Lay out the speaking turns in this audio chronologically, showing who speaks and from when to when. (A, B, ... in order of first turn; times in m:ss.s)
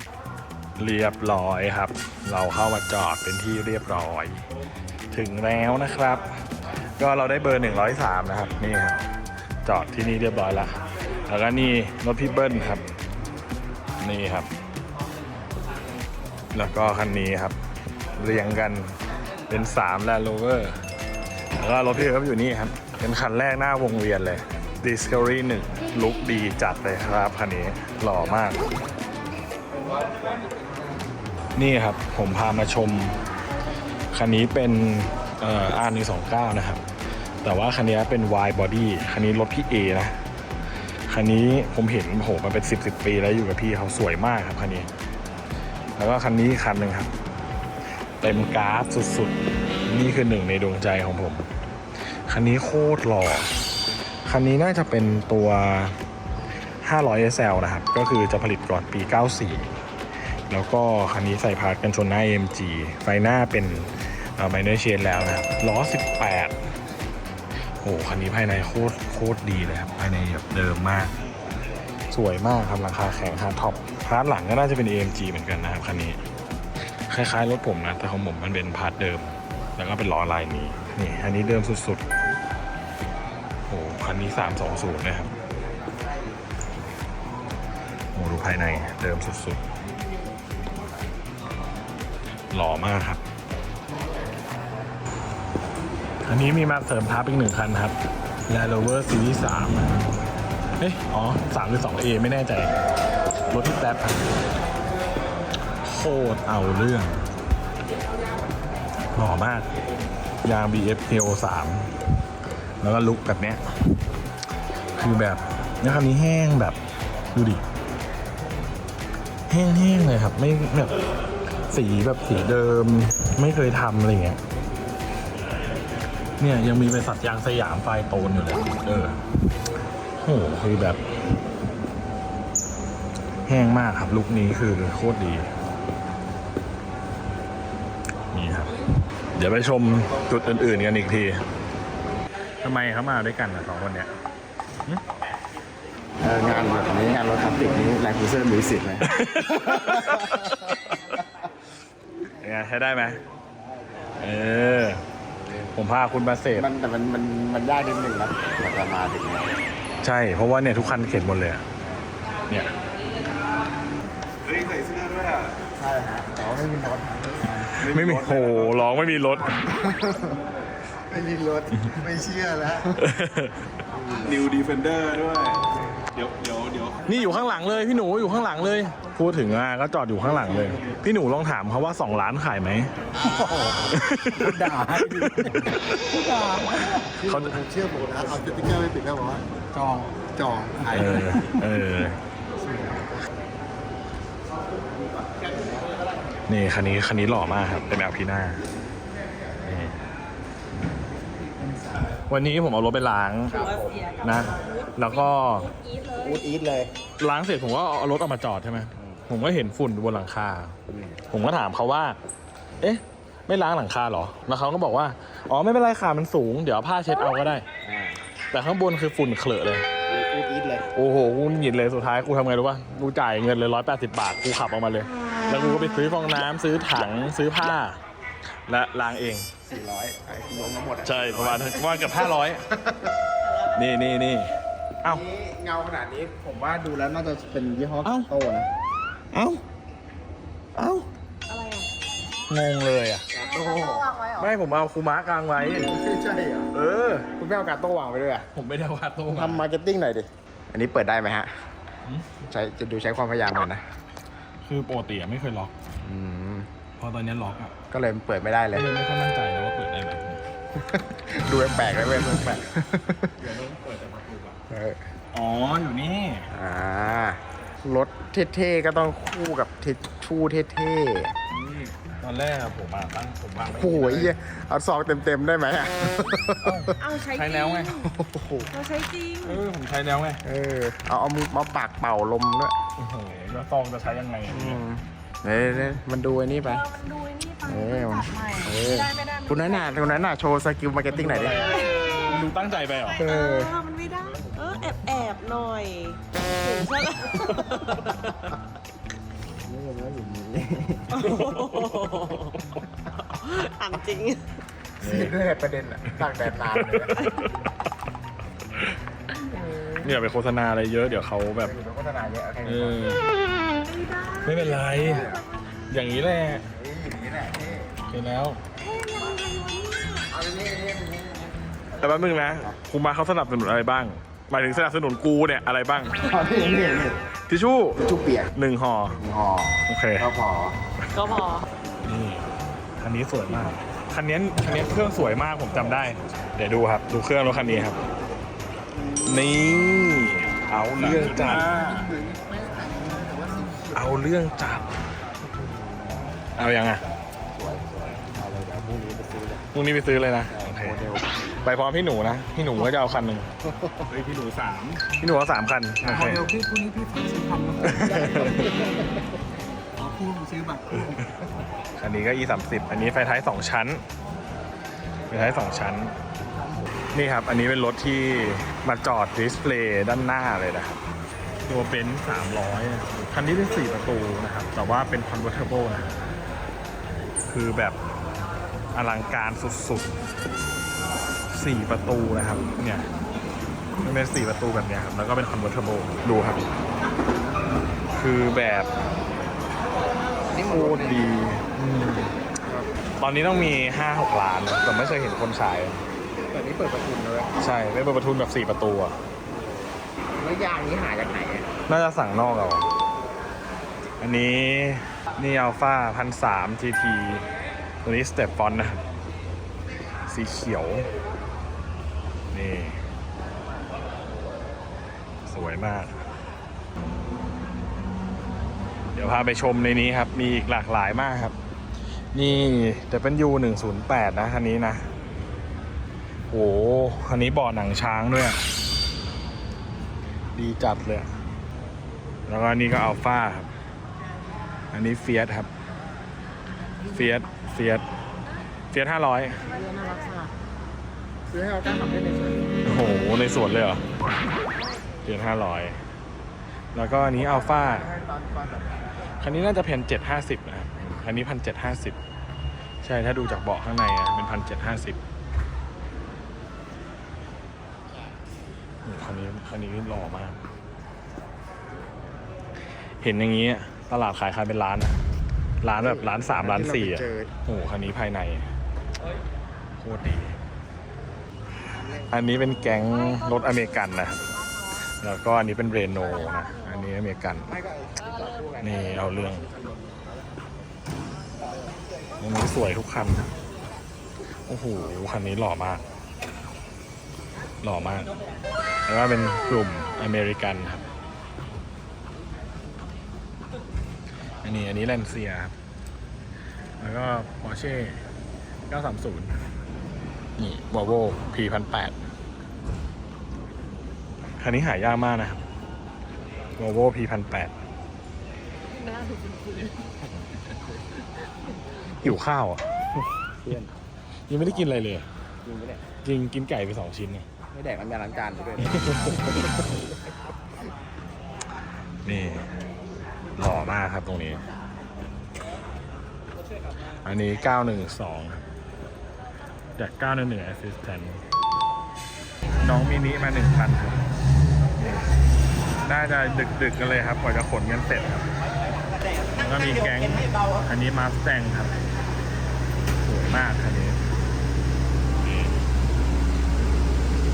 0:00.8-0:04.5 A
0:05.1-0:06.3 A
0:07.0-0:09.1 A
0:09.6-0:12.8 A
0:14.0-0:14.5 A
0:16.5-0:17.6 A
0:18.2-0:19.0 A
0:19.5-0:20.8 A
0:21.6-0:28.6 A
0:31.6-0:33.2 A
0:34.1-0:36.8 A
0:37.4-0:40.2 A
0:41.1-0:44.9 A
0:46.0-0:47.1 A
0:48.2-0:49.4 A
0:49.9-0:51.5 A
0:52.3-0:53.5 A
0:54.3-0:56.0 A
0:56.8-0:59.7 A
1:00.5-1:06.6 A
1:07.8-1:11.2 A
1:12.1-1:16.2 A
1:17.1-1:22.0 A
1:23.7-1:25.3 A
1:28.1-1:29.6 A
1:32.5-1:33.2 A
1:36.2-1:38.0 A
1:38.5-1:40.0 A
1:40.8-1:42.7 A
1:43.5-1:44.3 A
1:45.8-1:47.2 A
1:49.1-1:49.7 A
1:50.4-1:52.0 A
1:52.8-1:53.6 A
1:55.0-1:56.8 A
1:57.3-1:57.6 A
1:59.5-2:01.0 A
2:01.7-2:04.4 A
2:06.4-2:09.2 A
2:10.2-2:11.0 A
2:13.5-2:15.5 A
2:18.3-2:18.8 A
2:19.4-2:21.4 A
2:22.6-2:24.1 A
2:26.2-2:29.2 B
2:29.0-2:31.2 A
2:29.7-2:30.5 B
2:32.4-2:33.2 A
2:34.2-2:35.0 A
2:35.5-2:35.7 B
2:35.8-2:36.7 A
2:36.6-2:39.6 B
2:40.0-2:41.6 A
2:44.5-2:45.4 C
2:45.8-2:47.9 B
2:47.8-2:49.6 A
2:47.9-2:48.6 C
2:49.6-2:50.4 B
2:51.1-2:53.0 B
2:53.0-2:53.7 A
2:54.0-2:54.4 B
2:54.3-2:55.6 C
2:56.1-2:57.0 C
2:57.0-3:02.9 A
3:03.2-3:11.6 B
3:03.9-3:04.7 A
3:07.2-3:07.6 A
3:10.9-3:12.2 A
3:12.6-3:13.3 B
3:16.5-3:18.6 A
3:19.6-3:20.0 A
3:22.3-3:25.7 A
3:23.6-3:24.1 B
3:26.1-3:26.9 B
3:27.2-3:30.8 A
3:29.0-3:29.2 B
3:30.9-3:31.2 B
3:31.3-3:32.2 A
3:32.8-3:37.7 A
3:37.8-3:38.2 B
3:38.5-3:39.9 A
3:40.1-3:40.9 B
3:40.9-3:48.0 A
3:48.7-3:49.5 A
3:49.7-3:52.0 B
3:51.0-3:52.6 A
3:53.7-3:55.2 A
3:55.0-3:58.7 B
3:58.0-3:58.3 A
3:59.3-3:59.6 A
4:00.8-4:01.1 A
4:01.5-4:01.9 D
4:02.5-4:03.3 A
4:03.3-4:04.2 B
4:03.6-4:04.3 D
4:04.3-4:05.9 A
4:05.6-4:06.7 B
4:06.7-4:07.3 A
4:07.3-4:08.5 B
4:08.5-4:09.7 A
4:09.3-4:11.5 B
4:12.4-4:13.8 B
4:14.6-4:15.7 A
4:16.0-4:16.7 B
4:17.0-4:17.8 A
4:17.9-4:18.9 B
4:18.7-4:20.4 A
4:20.8-4:23.4 B
4:23.4-4:24.6 A
4:24.7-4:25.0 B
4:25.3-4:26.5 A
4:26.5-4:31.4 B
4:31.5-4:34.4 A
4:33.8-4:37.0 B
4:36.6-4:38.1 A
4:37.0-4:38.0 D
4:37.9-4:38.7 B
4:38.7-4:39.6 D
4:39.4-4:40.4 A
4:40.4-4:42.8 B
4:43.0-4:44.8 A
4:44.5-4:46.9 B
4:46.8-4:50.2 D
4:47.6-4:51.6 B
4:51.1-4:53.3 A
4:53.2-4:53.8 B
4:53.2-4:58.3 D
4:59.7-5:01.7 B
5:01.2-5:04.5 D
5:05.0-5:07.2 B
5:05.0-5:05.3 A
5:07.0-5:07.5 A
5:09.4-5:10.1 B
5:10.0-5:11.7 A
5:11.6-5:13.0 B
5:12.6-5:13.2 A
5:13.9-5:15.4 D
5:14.4-5:15.3 A
5:14.8-5:15.5 B
5:15.9-5:16.7 A
5:16.7-5:18.0 B
5:18.1-5:18.6 A
5:18.9-5:20.2 D
5:20.3-5:22.8 B
5:22.0-5:26.2 A
5:26.2-5:27.2 B
5:27.5-5:28.0 A
5:28.0-5:28.5 B
5:28.6-5:29.2 A
5:29.2-5:30.8 B
5:29.9-5:30.3 A
5:31.0-5:31.4 A
5:31.2-5:31.7 D
5:32.0-5:32.5 A
5:33.0-5:38.0 A
5:39.2-5:41.7 A
5:41.0-5:44.0 B
5:43.9-5:45.0 A
5:45.4-5:46.3 B
5:46.6-5:47.0 A
5:47.5-5:49.7 B
5:49.7-5:51.0 A
5:50.5-5:51.6 B
5:51.6-5:53.5 A
5:53.6-5:54.2 B
5:54.2-5:56.5 A
5:56.4-5:57.8 C
5:57.6-5:59.2 B
5:57.8-5:58.7 A
6:00.0-6:01.0 C
6:02.0-6:04.0 A
6:05.3-6:06.2 A
6:07.1-6:11.0 A
6:11.7-6:16.2 A
6:17.5-6:18.0 A
6:19.0-6:20.2 A
6:21.5-6:23.1 A
6:24.0-6:26.7 A
6:28.1-6:28.9 A
6:30.5-6:31.3 B
6:30.6-6:32.4 A
6:33.2-6:36.0 A
6:36.4-6:37.5 B
6:37.6-6:39.2 A
6:40.4-6:41.7 B
6:41.9-6:42.9 A
6:44.2-6:47.5 A
6:48.0-6:49.0 A
6:50.3-6:51.1 A
6:52.5-6:53.0 A
6:55.5-6:56.2 A
6:59.2-7:01.6 A
7:02.3-7:05.1 A
7:06.5-7:08.6 A
7:10.5-7:11.3 A
7:12.5-7:13.7 A
7:14.9-7:15.7 A
7:17.0-7:18.1 A
7:18.9-7:19.6 A
7:19.9-7:20.4 D
7:21.5-7:22.8 B
7:22.8-7:24.0 A
7:25.2-7:26.0 A
7:26.9-7:28.1 A
7:27.4-7:29.1 B
7:29.4-7:32.2 A
7:33.0-7:35.2 A
7:39.0-7:40.6 A
7:43.2-7:45.2 A
7:45.8-7:48.7 A
7:46.0-7:47.5 B
7:50.0-7:50.6 A
7:52.3-7:54.4 A
7:55.0-7:57.7 A
7:57.7-7:59.7 B
7:58.8-7:59.7 A
8:02.4-8:03.5 A
8:04.7-8:06.0 A
8:07.8-8:08.3 A
8:09.1-8:11.0 A
8:14.6-8:15.7 A
8:17.0-8:18.2 A
8:18.9-8:19.6 A
8:20.6-8:22.2 A
8:24.6-8:25.6 A
8:26.8-8:27.7 A
8:32.2-8:33.2 A
8:33.6-8:33.9 B
8:34.5-8:35.3 A
8:35.6-8:36.1 B
8:36.2-8:37.5 A
8:37.7-8:40.0 B
8:38.9-8:39.5 A
8:42.2-8:42.7 A
8:43.6-8:44.6 A
8:47.2-8:48.6 A
8:50.0-8:51.4 A
8:52.8-8:54.2 A
8:55.0-8:55.2 A
8:56.0-8:58.5 A
8:59.5-9:01.9 A
9:03.2-9:04.2 A
9:05.4-9:05.8 A